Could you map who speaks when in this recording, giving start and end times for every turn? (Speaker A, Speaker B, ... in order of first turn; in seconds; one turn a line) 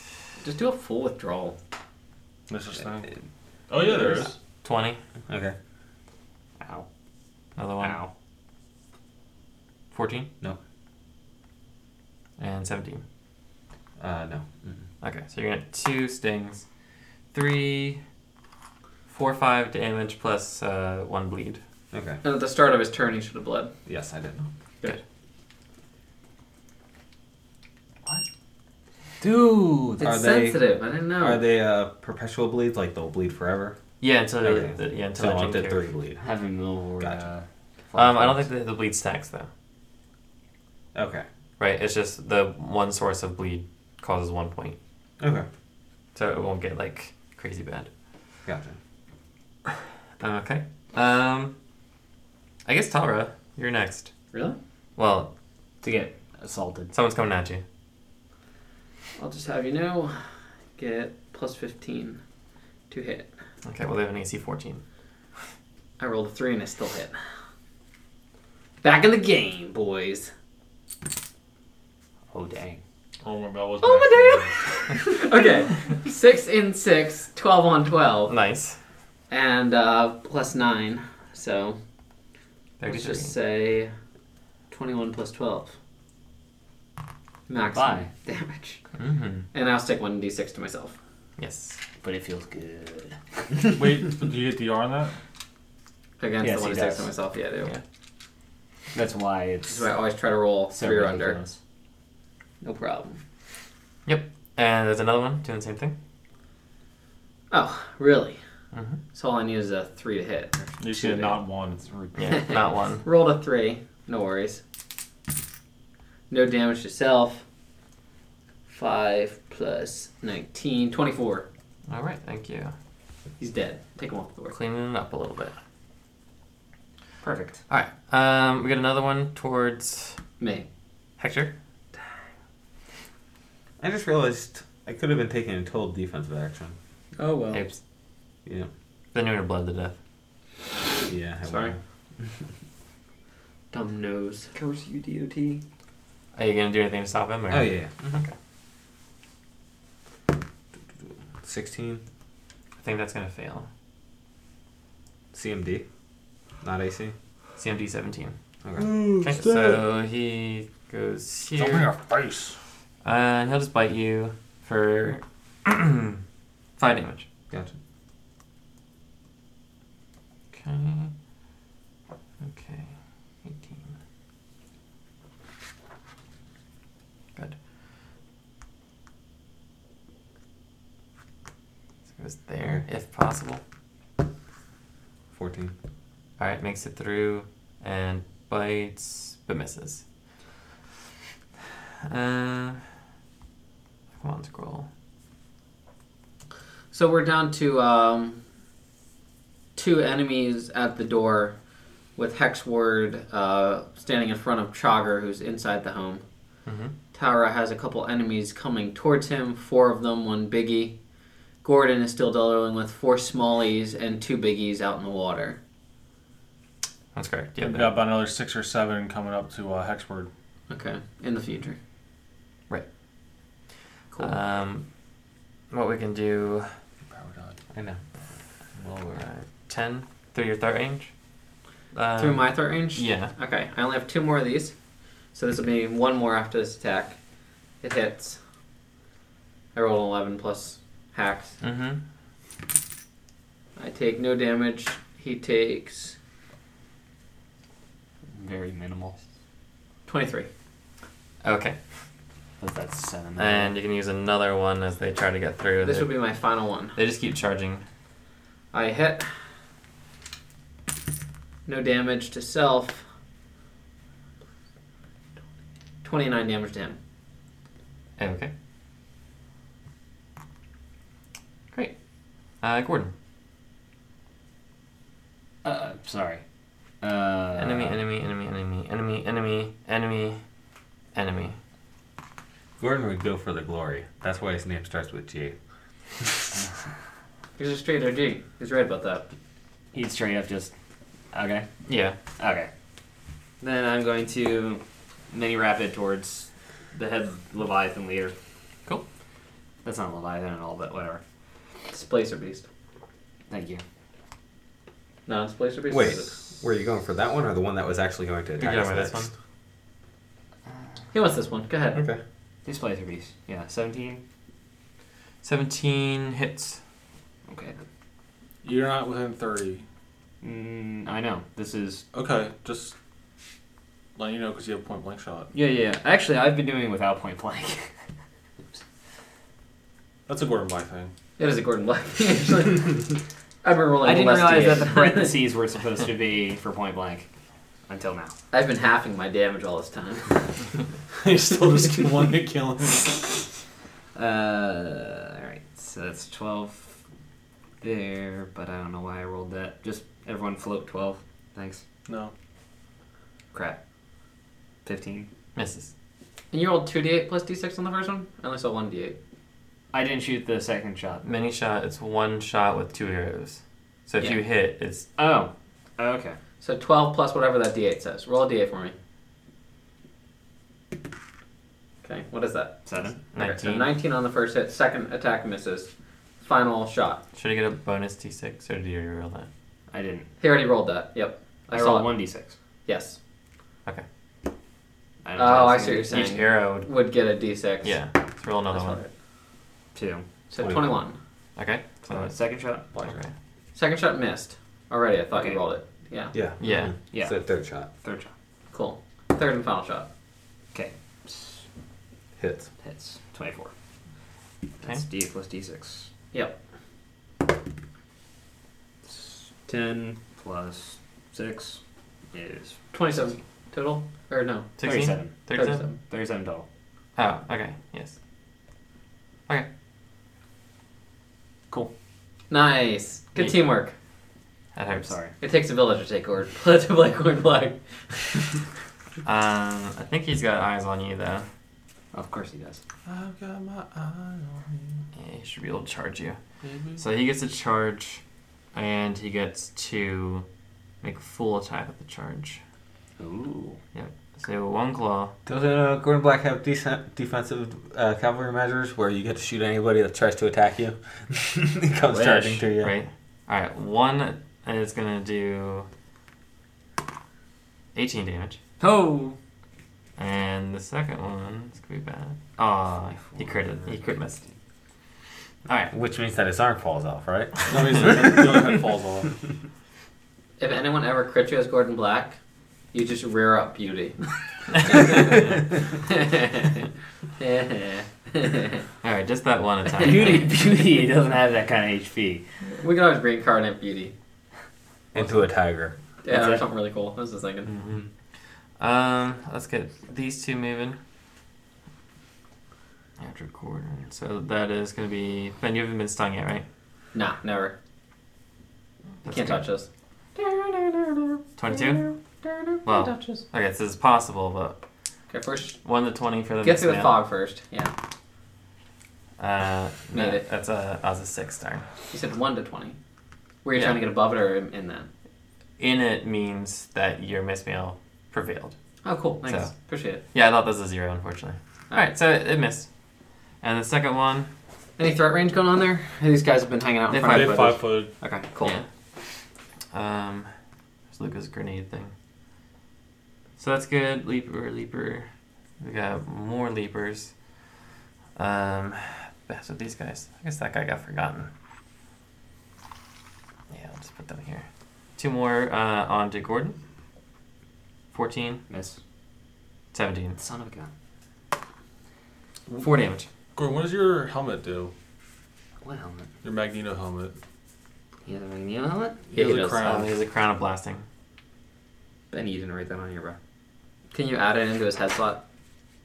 Speaker A: 0.4-1.6
Speaker B: 2.5-3.1
Speaker B: 3.7-4.4
Speaker C: 4.6-5.0
Speaker D: 5.3-5.5
Speaker E: 6.6-6.8
Speaker C: 7.5-8.0
Speaker E: 7.8-8.1
Speaker C: 9.9-10.3
Speaker C: 12.4-13.0
Speaker D: 14.0-14.8
Speaker C: 15.0-16.6
Speaker C: 17.3-18.0
Speaker C: 19.1-21.6
Speaker D: 21.9-22.2
Speaker A: 22.2-23.7
Speaker D: 23.9-24.5
Speaker E: 29.2-30.0
Speaker A: 30.0-31.4
Speaker D: 30.0-33.8
Speaker C: 34.0-35.9
Speaker D: 34.4-36.3
Speaker E: 36.2-38.5
Speaker D: 37.0-37.2
Speaker C: 37.9-39.5
Speaker D: 40.9-41.2
Speaker C: 41.6-44.8
Speaker D: 45.2-45.5
Speaker C: 46.1-47.9
Speaker D: 48.4-48.8
Speaker C: 50.2-51.5
Speaker C: 52.6-54.1
Speaker C: 55.0-55.3
Speaker E: 55.8-56.9
Speaker C: 56.9-57.6
Speaker A: 59.1-60.2
Speaker A: 60.8-62.2
Speaker A: 62.9-63.3
Speaker C: 63.6-64.8
Speaker A: 66.0-67.1
Speaker A: 68.8-70.3
Speaker E: 72.3-72.8
Speaker B: 73.2-74.7
Speaker A: 73.8-78.3
Speaker C: 78.3-78.8
Speaker A: 79.3-81.8
Speaker C: 82.8-83.3
Speaker A: 82.8-83.9
Speaker A: 84.7-85.7
Speaker A: 87.5-88.8
Speaker E: 87.7-88.1
Speaker C: 89.0-89.4
Speaker A: 89.5-91.0
Speaker C: 91.4-91.8
Speaker E: 92.0-93.6
Speaker B: 93.7-95.1
Speaker A: 96.2-97.7
Speaker E: 96.4-97.1
Speaker E: 98.9-99.9
Speaker A: 99.7-101.4
Speaker E: 100.7-101.6
Speaker A: 102.6-103.2
Speaker C: 104.0-105.9
Speaker A: 107.5-108.4
Speaker C: 108.7-109.0
Speaker A: 109.1-111.3
Speaker B: 110.8-111.8
Speaker E: 111.8-112.5
Speaker C: 112.1-113.0
Speaker A: 112.3-114.6
Speaker A: 116.3-117.4
Speaker A: 118.7-121.5
Speaker C: 121.9-122.7
Speaker A: 123.4-124.5
Speaker C: 124.5-125.5
Speaker E: 127.2-127.6
Speaker C: 127.7-130.2
Speaker A: 130.4-130.7
Speaker C: 131.2-131.5
Speaker D: 133.8-136.7
Speaker E: 137.2-137.6
Speaker C: 137.5-137.8
Speaker C: 139.1-139.9
Speaker D: 141.1-142.3
Speaker A: 141.5-141.7
Speaker A: 143.7-144.5
Speaker E: 144.5-145.6
Speaker C: 146.3-148.3
Speaker D: 147.5-148.2
Speaker D: 151.4-152.0
Speaker C: 152.8-153.7
Speaker D: 155.3-155.8
Speaker D: 156.6-157.1
Speaker C: 157.6-158.3
Speaker D: 158.6-159.2
Speaker B: 158.8-159.8
Speaker C: 159.2-161.9
Speaker B: 161.5-162.5
Speaker C: 163.0-166.2
Speaker C: 166.8-167.3
Speaker C: 170.5-171.1
Speaker C: 172.4-173.9
Speaker C: 182.1-183.6
Speaker D: 185.3-185.7
Speaker C: 186.4-190.0
Speaker C: 192.1-192.9
Speaker C: 194.1-194.9
Speaker A: 196.9-198.4
Speaker A: 199.7-201.6
Speaker A: 202.2-206.2
Speaker C: 206.7-206.9
Speaker A: 207.1-211.0
Speaker A: 211.6-215.6
Speaker C: 217.1-218.0
Speaker B: 217.6-220.3
Speaker A: 220.7-221.8
Speaker C: 224.2-224.8
Speaker C: 225.7-226.7
Speaker B: 227.1-227.6
Speaker D: 227.7-228.0
Speaker D: 228.8-229.2
Speaker C: 229.1-231.1
Speaker C: 231.9-233.3
Speaker A: 232.2-234.7
Speaker A: 235.3-237.2
Speaker A: 237.8-238.4
Speaker A: 239.7-241.6
Speaker C: 241.6-242.0
Speaker A: 243.8-246.2
Speaker E: 248.3-249.2
Speaker A: 250.1-250.5
Speaker C: 251.4-251.8
Speaker E: 252.6-253.7
Speaker C: 253.4-256.2
Speaker A: 255.8-257.0
Speaker C: 256.9-257.8
Speaker A: 258.7-259.3
Speaker A: 261.6-263.0
Speaker A: 266.0-267.0
Speaker C: 268.2-268.5
Speaker C: 272.6-273.1
Speaker E: 275.6-276.4
Speaker E: 277.0-278.0
Speaker C: 277.6-280.4
Speaker C: 281.1-281.6
Speaker D: 282.8-285.6
Speaker A: 287.6-289.3
Speaker E: 289.9-290.7
Speaker E: 291.3-291.7
Speaker C: 291.9-292.1
Speaker E: 292.4-292.7
Speaker E: 293.6-298.3
Speaker E: 299.8-301.2
Speaker A: 301.9-302.6
Speaker E: 303.5-303.8
Speaker A: 305.2-306.4
Speaker D: 305.9-309.3
Speaker C: 308.6-309.3
Speaker A: 311.1-312.0
Speaker D: 311.9-312.2
Speaker E: 312.6-314.2
Speaker C: 315.4-316.8
Speaker E: 317.5-317.8
Speaker B: 318.6-319.8
Speaker E: 320.4-322.1
Speaker B: 322.1-322.9
Speaker B: 324.1-325.5
Speaker E: 325.5-327.9
Speaker B: 330.3-331.1
Speaker A: 331.4-333.1
Speaker A: 333.6-335.3
Speaker E: 334.0-337.3
Speaker E: 337.9-338.3
Speaker A: 338.5-340.5
Speaker B: 341.2-343.5
Speaker E: 344.1-347.0
Speaker E: 347.8-351.8
Speaker B: 352.1-352.3
Speaker E: 353.5-353.8
Speaker E: 354.8-355.3
Speaker C: 355.5-355.9
Speaker A: 356.5-359.2
Speaker E: 359.9-361.2
Speaker C: 361.2-365.1
Speaker E: 365.2-366.4
Speaker A: 366.6-368.9
Speaker A: 372.0-375.9
Speaker E: 372.9-373.2
Speaker C: 373.3-373.9
Speaker A: 376.4-377.2
Speaker C: 377.3-379.5
Speaker E: 379.9-380.3
Speaker A: 380.4-382.2
Speaker E: 381.7-382.6
Speaker A: 382.9-383.2
Speaker E: 385.2-386.2
Speaker A: 385.4-388.0
Speaker C: 386.1-386.9
Speaker C: 387.8-389.0
Speaker A: 388.7-389.1
Speaker E: 389.9-390.2
Speaker A: 390.5-391.2
Speaker D: 390.6-390.9
Speaker C: 391.6-393.3
Speaker E: 392.1-392.9
Speaker A: 393.7-396.3
Speaker E: 395.3-395.6
Speaker D: 396.3-397.9
Speaker C: 396.6-396.9
Speaker E: 397.1-398.3
Speaker A: 398.7-400.1
Speaker E: 400.7-401.6
Speaker D: 402.4-402.7
Speaker E: 402.8-403.7
Speaker E: 404.8-406.1
Speaker E: 409.1-411.8
Speaker E: 412.3-412.8
Speaker A: 412.9-414.7
Speaker C: 414.8-415.8
Speaker E: 414.8-416.6
Speaker A: 415.5-416.0
Speaker C: 417.1-418.1
Speaker A: 422.5-423.9
Speaker C: 424.7-425.1
Speaker E: 424.9-425.3
Speaker A: 425.4-428.6
Speaker C: 429.2-431.5
Speaker E: 432.1-432.8
Speaker B: 433.0-435.0
Speaker C: 435.1-436.4
Speaker B: 436.6-437.0
Speaker C: 437.0-438.2
Speaker C: 438.7-440.4
Speaker C: 441.0-442.6
Speaker E: 443.2-443.8
Speaker C: 443.9-445.3
Speaker D: 445.4-452.9
Speaker E: 452.1-452.6
Speaker C: 452.8-455.9
Speaker C: 457.9-458.6
Speaker E: 458.8-459.4
Speaker C: 460.2-464.4
Speaker E: 463.1-464.5
Speaker D: 465.9-468.6
Speaker B: 467.7-469.3
Speaker A: 470.6-472.4
Speaker A: 472.9-476.9
Speaker C: 474.9-475.3
Speaker A: 477.4-478.9
Speaker C: 479.0-480.5
Speaker E: 480.0-482.4
Speaker A: 482.8-484.1
Speaker D: 485.1-485.9
Speaker A: 486.2-487.7
Speaker E: 486.3-486.6
Speaker C: 487.6-488.1
Speaker C: 488.8-491.0
Speaker C: 493.2-496.6
Speaker A: 497.1-497.8
Speaker C: 499.2-499.6
Speaker A: 499.2-503.4
Speaker C: 501.6-502.1
Speaker C: 502.8-504.8
Speaker A: 505.3-505.8
Speaker C: 505.8-507.2
Speaker A: 506.6-507.9
Speaker C: 509.4-511.9
Speaker A: 510.1-510.4
Speaker A: 512.1-513.0
Speaker A: 513.6-515.1
Speaker C: 515.8-518.8
Speaker A: 519.0-520.2
Speaker C: 519.4-519.7
Speaker C: 520.3-522.9
Speaker C: 523.6-524.5
Speaker A: 525.0-528.8
Speaker C: 527.1-527.6
Speaker B: 527.2-528.1
Speaker C: 528.6-528.9
Speaker C: 529.9-530.5
Speaker C: 531.1-532.1
Speaker C: 533.6-535.3
Speaker C: 535.8-537.3
Speaker C: 538.4-541.5
Speaker C: 543.7-544.6
Speaker C: 545.2-546.8
Speaker C: 548.1-548.6
Speaker E: 548.7-549.0
Speaker C: 549.9-550.4
Speaker E: 550.4-550.9
Speaker C: 552.8-553.3
Speaker B: 553.5-554.9
Speaker E: 555.8-556.3
Speaker B: 556.4-557.4
Speaker E: 558.2-559.3
Speaker B: 559.3-560.1
Speaker A: 559.3-559.9
Speaker C: 559.8-561.0
Speaker E: 562.3-563.4
Speaker A: 564.1-565.4